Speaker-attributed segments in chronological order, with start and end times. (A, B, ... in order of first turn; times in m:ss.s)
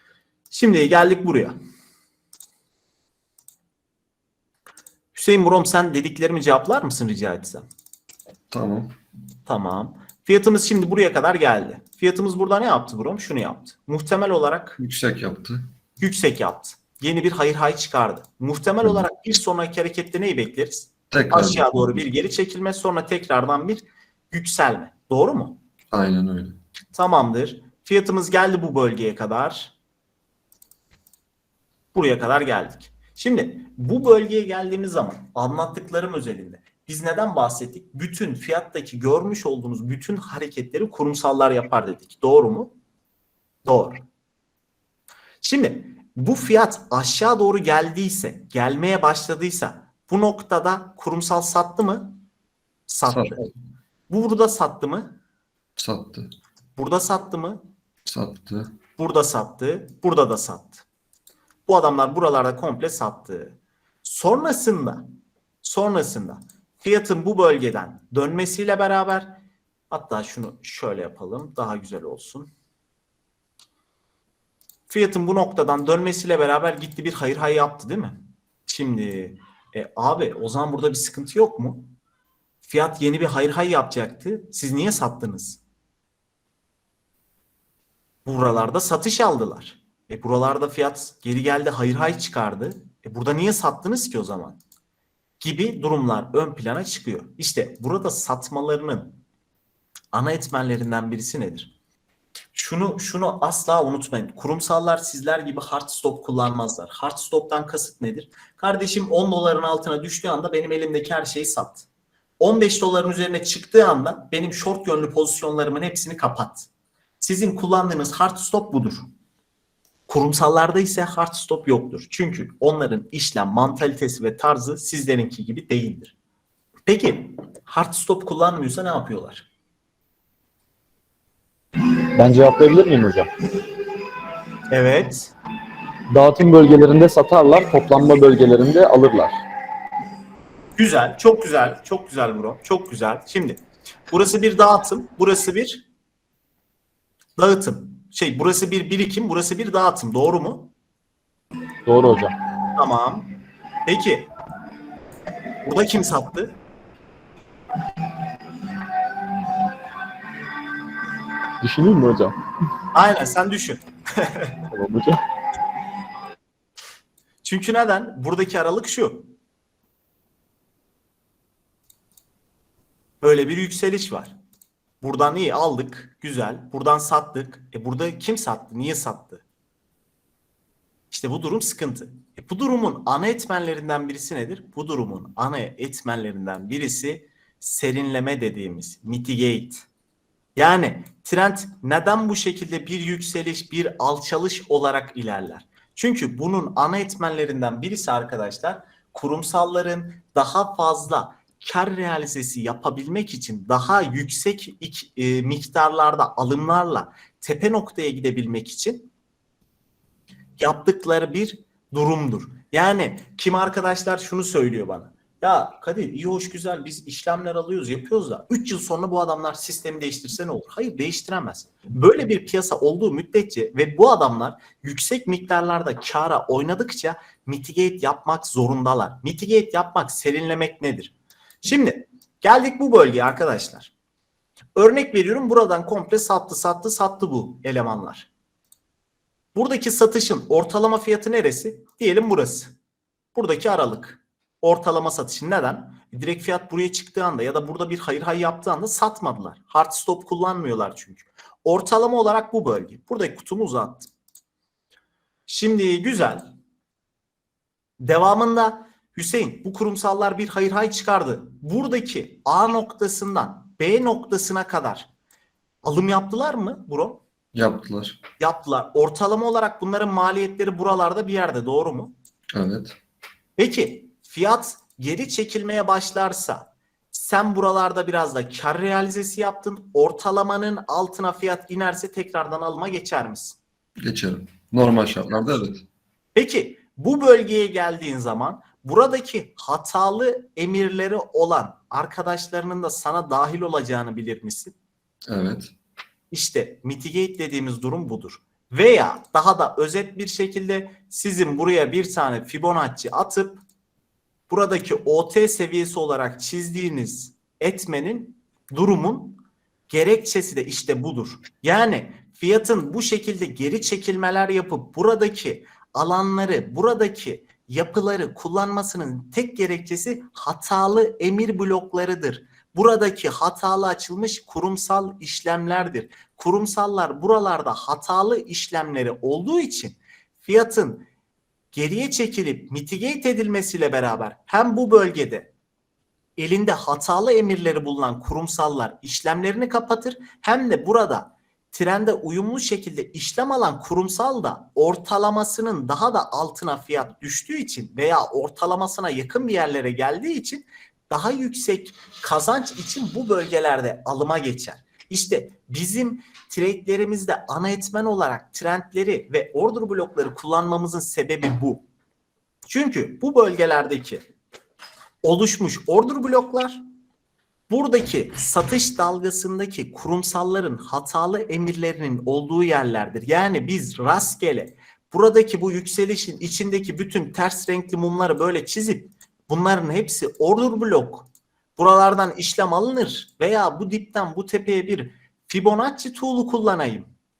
0:00.5-0:01.6 A
0:05.1-0:07.6 A
0:08.5-0:08.9 B
0:09.5-0:14.8 A
0:14.8-0:15.7 B
0:16.0-0:25.6 A
0:21.1-0:22.0 B
0:25.9-0:26.6 B
0:26.9-0:29.7 A
0:31.9-0:42.7 A
0:43.7-0:44.0 A
0:45.4-0:52.2 A
0:52.9-0:53.5 A
0:53.1-0:53.5 B
0:54.1-0:55.2 A
0:55.8-0:56.3 B
0:56.8-0:57.6 A
0:58.1-0:58.7 B
0:59.0-1:00.8 A
1:01.7-1:05.1 A
1:05.6-1:09.4 A
1:09.9-1:12.5 A
1:14.9-1:21.9 A
1:22.6-1:25.6 A
1:28.3-1:34.6 A
1:35.4-1:39.2 A
1:40.1-1:41.7 A
1:42.5-1:51.9 A
1:52.4-1:56.7 A
1:57.2-1:59.1 A
2:00.1-2:06.1 A
2:06.9-2:09.5 A
2:12.2-2:13.3 C
2:14.7-2:15.3 A
2:16.1-2:19.4 C
2:20.8-2:25.8 A
2:27.4-2:30.7 A
2:31.9-2:32.4 C
2:32.7-2:33.3 A
2:33.9-2:34.3 A
2:35.6-2:36.5 A
2:41.6-2:42.4 C
2:42.9-2:44.5 A
2:44.7-2:45.2 C
2:47.4-2:49.3 A
2:53.2-2:54.3 A
2:55.0-2:59.4 A
3:01.1-3:09.9 A
3:10.6-3:29.1 A
3:30.6-3:53.9 A
3:54.8-3:58.3 A
3:59.6-4:02.7 A
4:03.4-4:14.1 A
4:15.5-4:16.5 A
4:18.0-4:25.1 A
4:25.8-4:27.2 A
4:27.5-4:28.2 B
4:28.4-4:32.1 A
4:32.5-4:33.0 B
4:33.6-4:43.6 A
4:44.0-4:45.8 B
4:46.4-4:54.8 A
4:55.3-4:55.7 B
4:56.3-5:03.6 A
5:04.5-5:31.1 A
5:31.7-5:35.5 A
5:36.4-6:01.8 A
6:02.7-6:04.2 A
6:05.2-6:06.8 A
6:07.7-6:27.1 A